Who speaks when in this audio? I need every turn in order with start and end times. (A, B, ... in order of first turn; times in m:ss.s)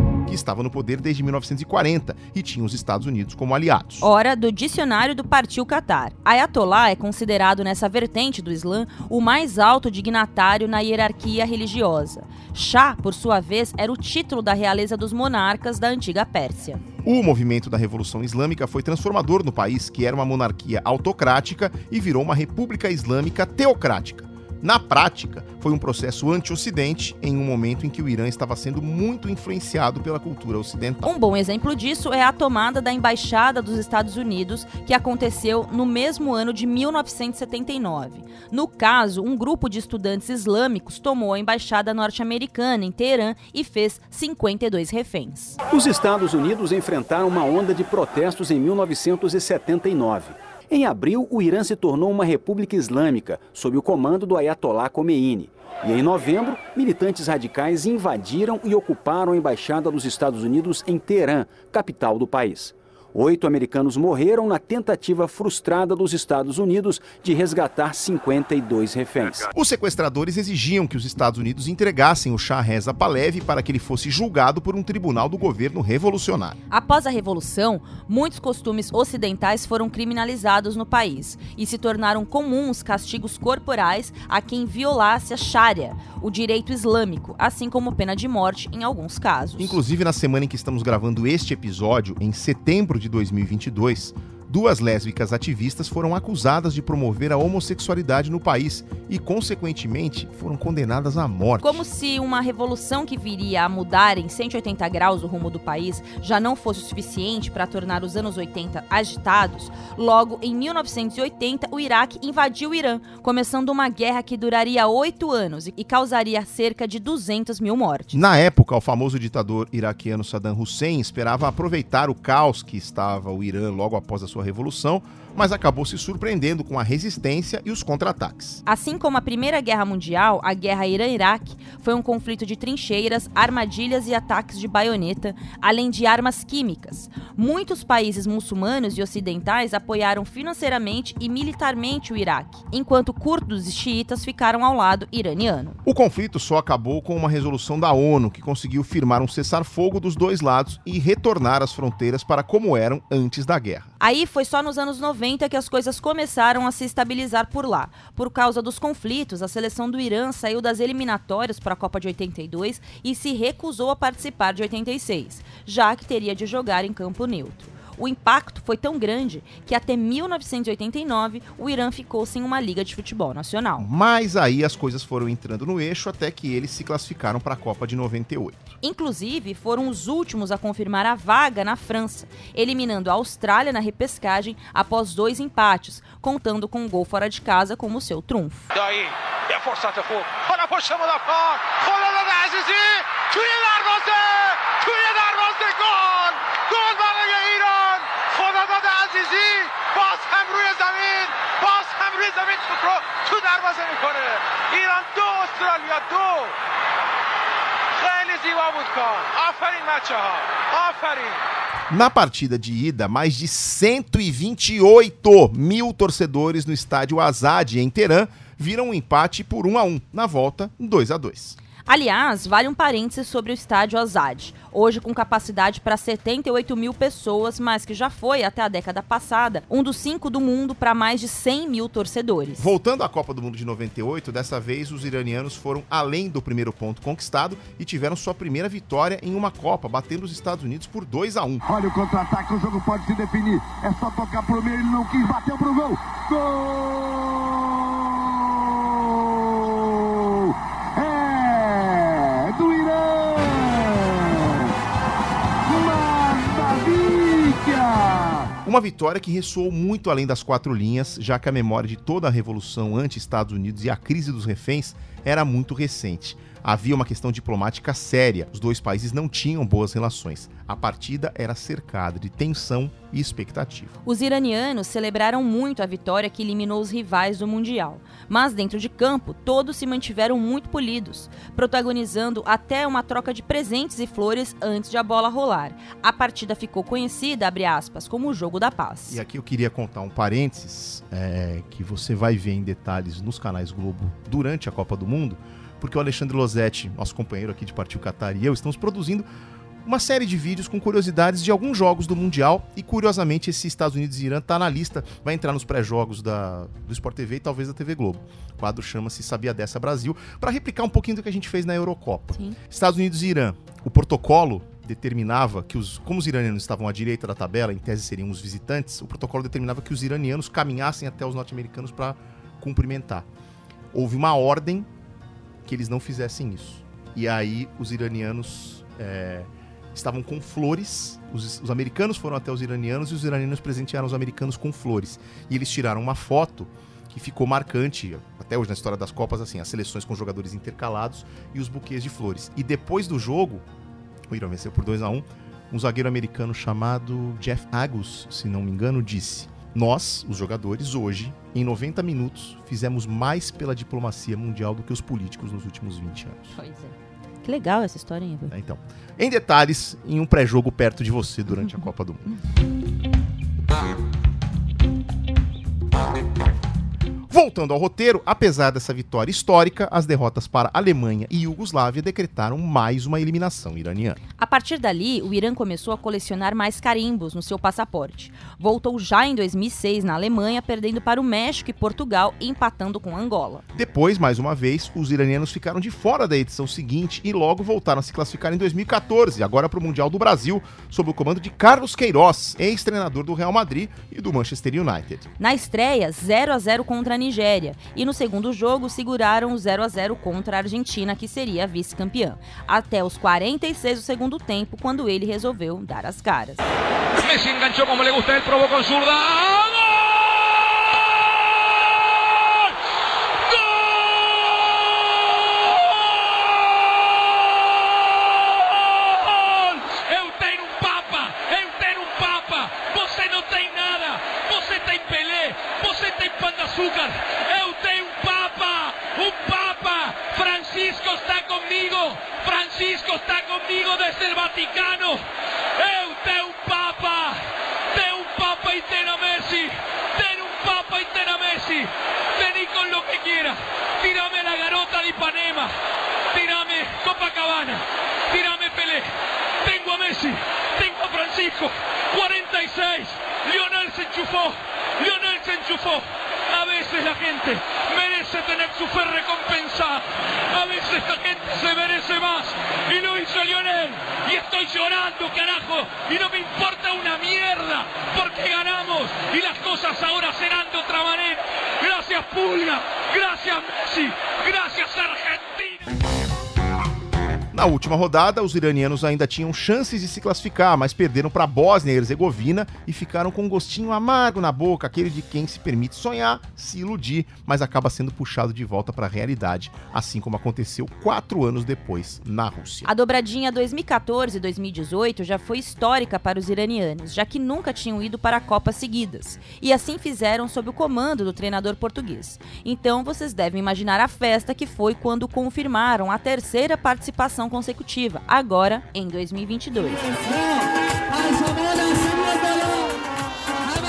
0:00.2-0:04.1 A
0:04.0-0:16.8 B
0:17.0-0:31.1 A
0:31.0-0:45.6 B
0:45.7-1:09.5 C
1:09.5-1:16.6 A
1:16.7-1:29.8 B
1:29.6-1:41.8 A
1:41.6-1:58.2 B
1:58.1-2:08.6 A
2:08.6-2:25.8 B
2:25.8-2:33.9 A
2:34.0-2:53.9 B
2:53.8-2:58.7 A
2:58.8-3:08.7 B
3:08.7-3:26.5 D
3:28.0-3:31.4 D
3:31.9-3:41.6 A
3:41.8-3:52.7 B
3:52.6-4:01.6 A
4:01.7-4:07.1 E
4:11.0-4:11.9 E
4:12.5-4:13.4 E
4:15.7-4:18.2 E
4:18.6-4:33.9 A
4:34.0-4:49.2 B
4:49.1-4:59.3 A
4:59.8-5:23.3 A
5:12.3-5:12.6 B
5:23.9-5:24.9 A
5:25.6-5:43.6 A
5:44.3-5:56.6 A
5:56.6-5:58.5 B
5:58.5-6:02.3 A
6:07.3-6:14.2 A
6:14.4-6:23.6 B
6:23.7-6:35.3 A
6:35.4-6:46.6 B
6:47.2-6:49.7 F
6:53.5-6:54.4 F
6:58.7-7:15.2 F
7:15.8-7:17.4 F
7:17.9-7:25.7 F
7:26.3-7:29.1 F
7:29.6-7:55.9 F
7:57.5-8:12.9 A
8:12.8-8:30.1 B